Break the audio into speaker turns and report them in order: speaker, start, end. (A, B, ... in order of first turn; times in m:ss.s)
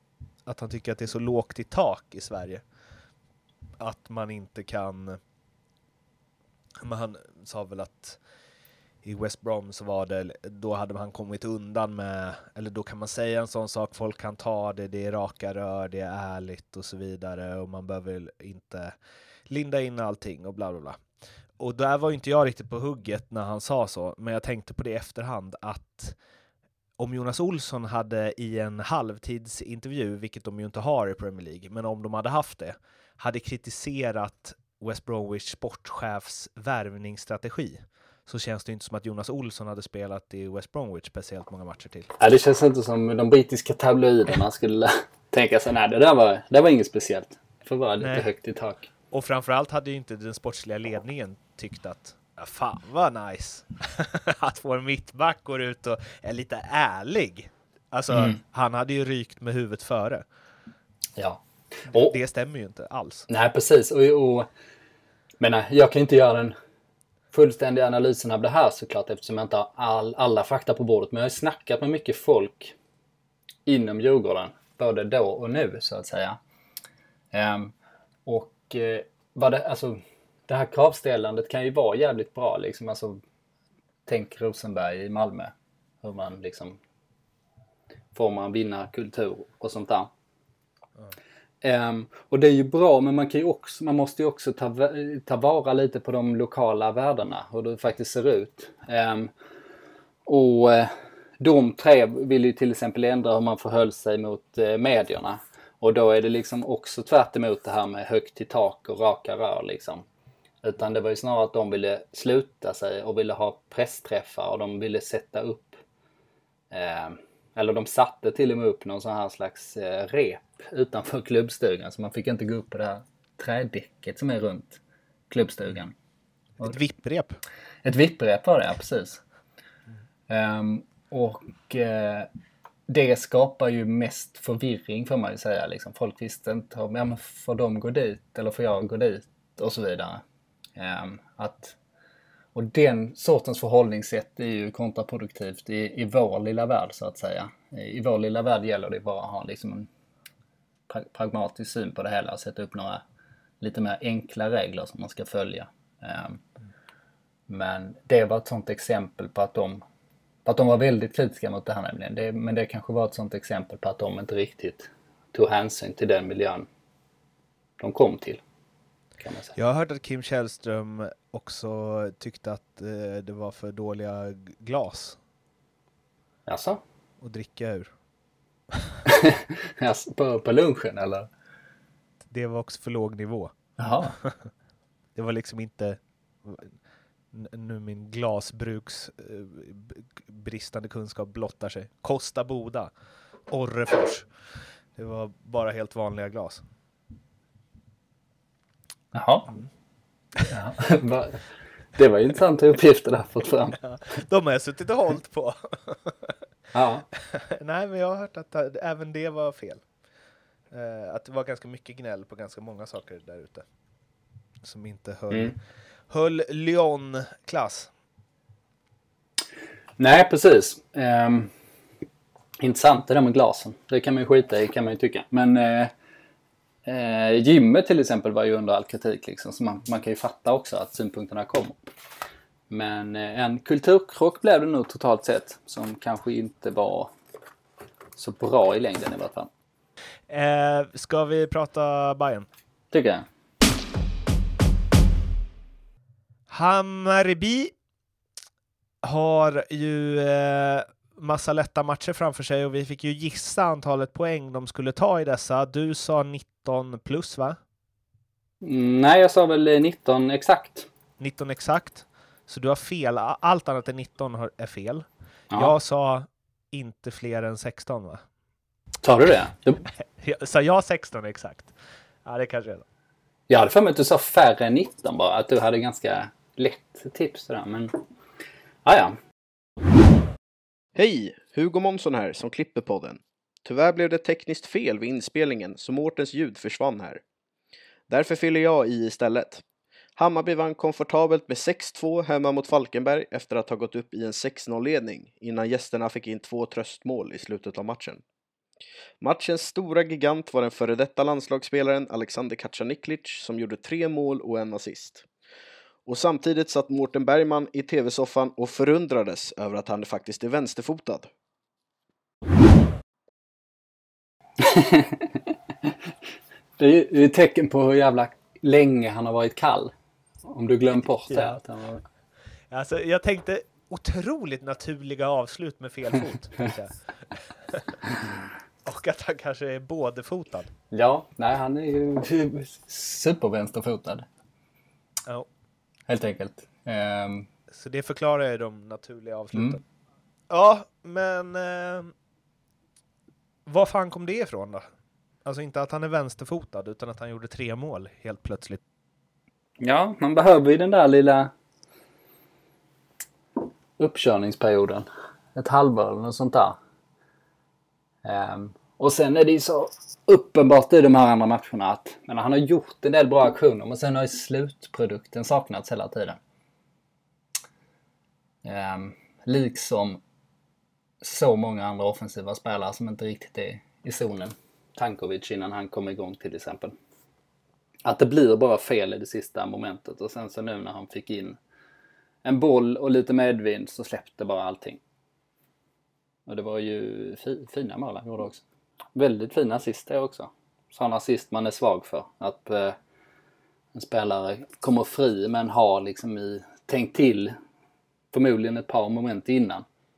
0:00.4-0:02.6 A
0:03.8-0:05.2 A
0:06.8-0:08.2 A
0:09.0-0:18.9 A
0:19.5-0:21.0 A
0:21.6-0:26.2 A
0:27.0-0:42.1 A
0:42.2-0:48.9 B
0:48.0-0:48.3 A
0:49.1-1:00.2 A
0:58.1-0:58.4 B
1:01.2-1:02.1 B
1:01.9-1:03.3 A
1:03.3-1:04.5 B
1:05.4-1:06.5 B
1:07.3-1:12.8 B
1:13.6-1:16.4 B
1:17.3-1:17.7 B
1:18.2-1:23.2 B
1:24.1-1:26.8 B
1:28.1-1:30.1 B
1:31.6-1:39.3 B
1:40.2-1:50.0 B
1:50.6-1:55.8 B
1:56.7-2:05.9 B
2:06.6-2:07.4 A
2:07.8-2:09.2 B
2:10.3-2:12.3 B
2:12.9-2:20.2 B
2:20.8-2:21.8 B
2:22.5-2:29.9 B
2:30.9-2:33.0 B
2:33.6-2:36.4 B
2:37.5-2:39.8 B
2:40.4-2:46.7 B
2:47.8-2:48.4 B
2:49.2-2:49.6 B
2:49.6-2:55.2 A
2:56.5-2:56.8 B
2:57.2-2:57.9 A
2:59.1-3:01.3 B
3:02.2-3:03.5 A
3:03.8-3:04.2 B
3:04.1-3:04.5 A
3:05.1-3:06.8 A
3:07.3-3:12.9 A
3:13.5-3:14.3 A
3:14.9-3:16.6 A
3:19.1-3:19.5 B
3:20.4-3:21.4 B
3:21.9-3:23.8 B
3:23.8-3:26.3 A
3:26.7-3:27.1 B
3:27.1-3:29.8 A
3:30.7-3:33.6 A
3:34.6-3:35.6 A
3:35.3-3:35.6 B
3:36.1-3:37.9 A
3:40.0-3:41.5 B
3:42.6-3:45.9 B
3:46.8-3:51.9 B
3:52.7-3:57.1 B
3:58.2-3:59.5 B
4:00.3-4:02.5 A
4:02.9-4:03.2 B
4:06.5-4:07.7 A
4:09.0-4:17.6 A
4:18.6-4:20.9 B
4:21.2-4:28.2 A
4:29.0-4:29.8 B
4:30.0-4:32.8 A
4:33.5-4:38.0 B
4:38.8-4:39.2 B
4:40.9-4:47.2 C
4:48.1-4:49.6 C
4:50.2-4:58.2 C
4:59.2-5:05.2 C
5:06.0-5:11.3 C
5:14.6-5:15.4 B
5:16.8-5:19.9 B
5:20.4-5:22.0 B
5:21.3-5:21.6 A
5:22.7-5:28.0 A
5:28.8-5:30.7 A
5:30.9-5:34.2 B
5:36.1-5:37.5 B
5:37.7-5:39.8 A
5:40.5-5:42.1 A
5:43.7-5:44.8 A
5:45.4-5:48.8 A
5:49.8-5:51.5 B
5:54.0-5:56.8 B
5:58.2-6:06.4 B
6:08.6-6:10.2 B
6:11.2-6:16.9 B
6:18.0-6:21.6 B
6:22.4-6:25.0 B
6:26.5-6:28.6 B
6:29.1-6:33.0 B
6:33.9-6:37.6 B
6:38.3-6:39.8 B